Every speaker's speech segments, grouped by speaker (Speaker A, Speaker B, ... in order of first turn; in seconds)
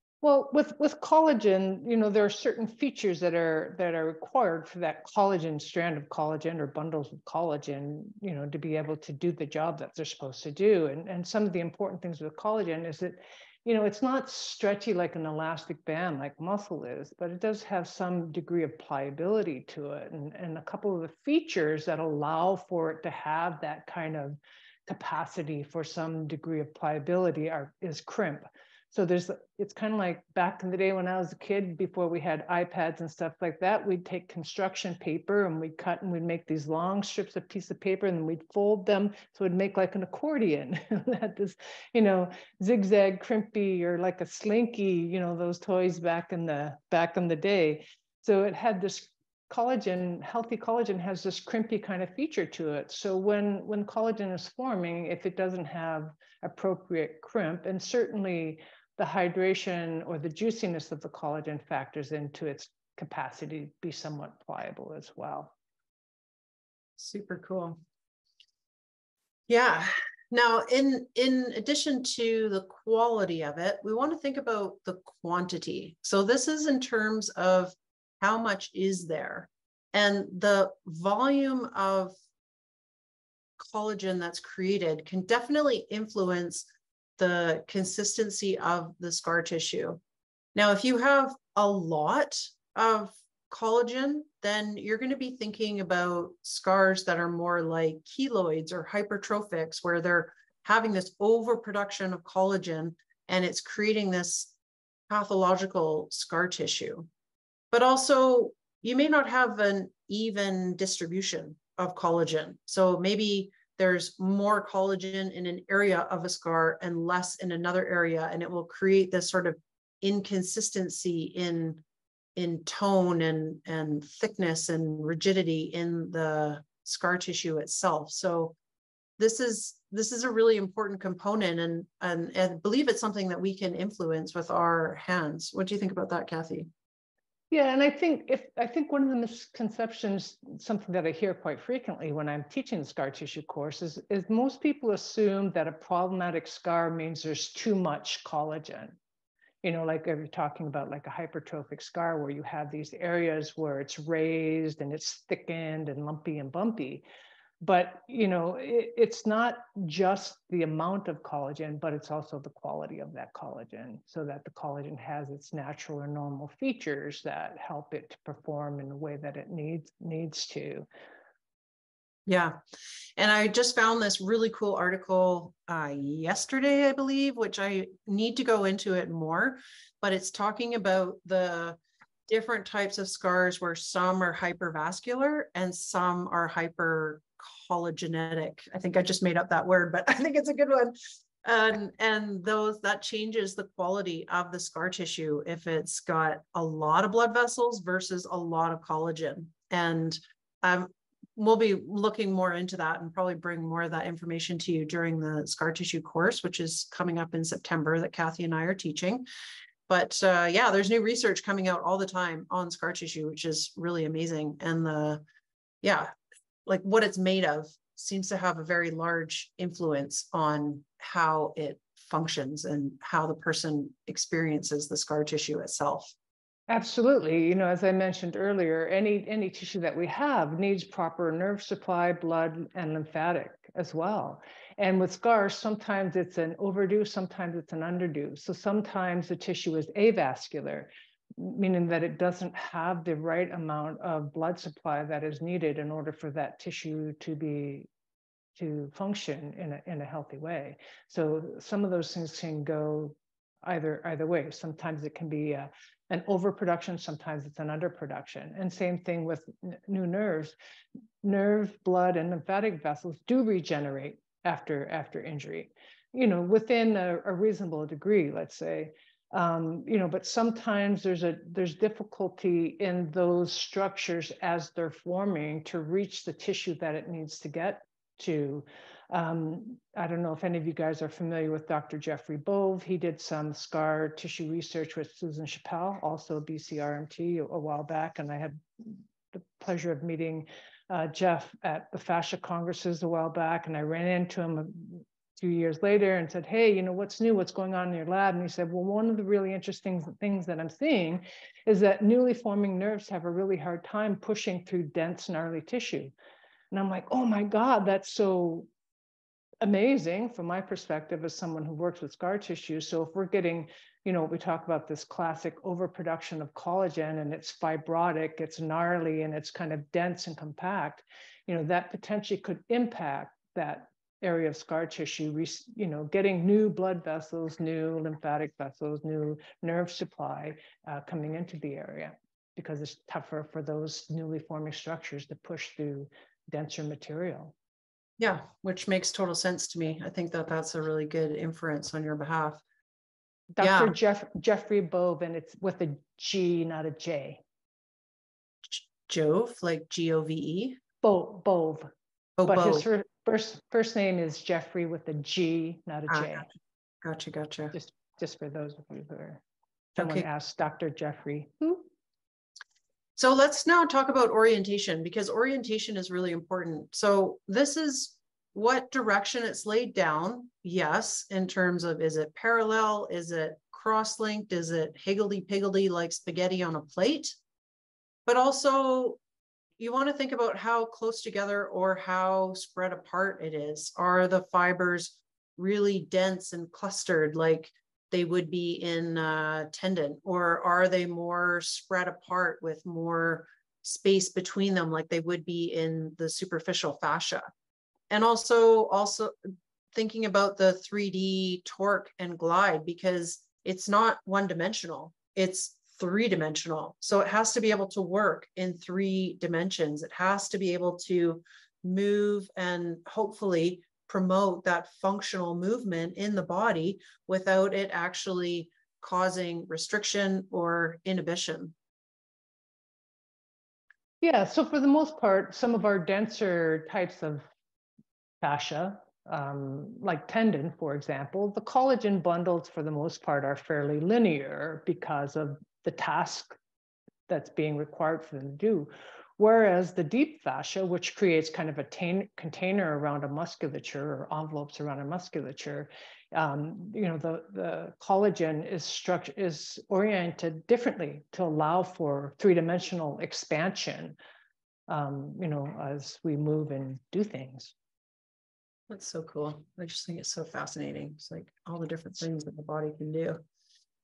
Speaker A: 0.2-65.5, 137.5-149.0, 149.6-157.0, 157.6-170.8, 226.7-247.9, 248.6-260.5, 261.2-306.1, 306.7-308.7, 309.6-337.5, 343.6-347.4, 351.0-351.9, 352.5-356.5, 357.7-359.4, 360.0-361.9, 424.2-427.4, 428.4-436.6, 437.3-454.2, 454.9-457.7
Speaker B: 67.0-67.8, 69.5-82.1, 83.6-90.0, 90.5-104.5, 105.1-107.1, 107.7-121.8, 122.3-128.6, 129.2-136.7, 172.3-172.6, 173.2-209.3, 209.9-215.2, 215.8-216.1, 216.7-226.1, 338.2-342.6, 343.6-343.9, 348.6-350.8, 352.4-352.9, 356.1-356.5, 357.0-357.8, 360.0-360.3, 363.1-377.4, 378.2-379.2, 379.8-397.5, 398.1-399.4, 399.9-421.7, 458.9-463.4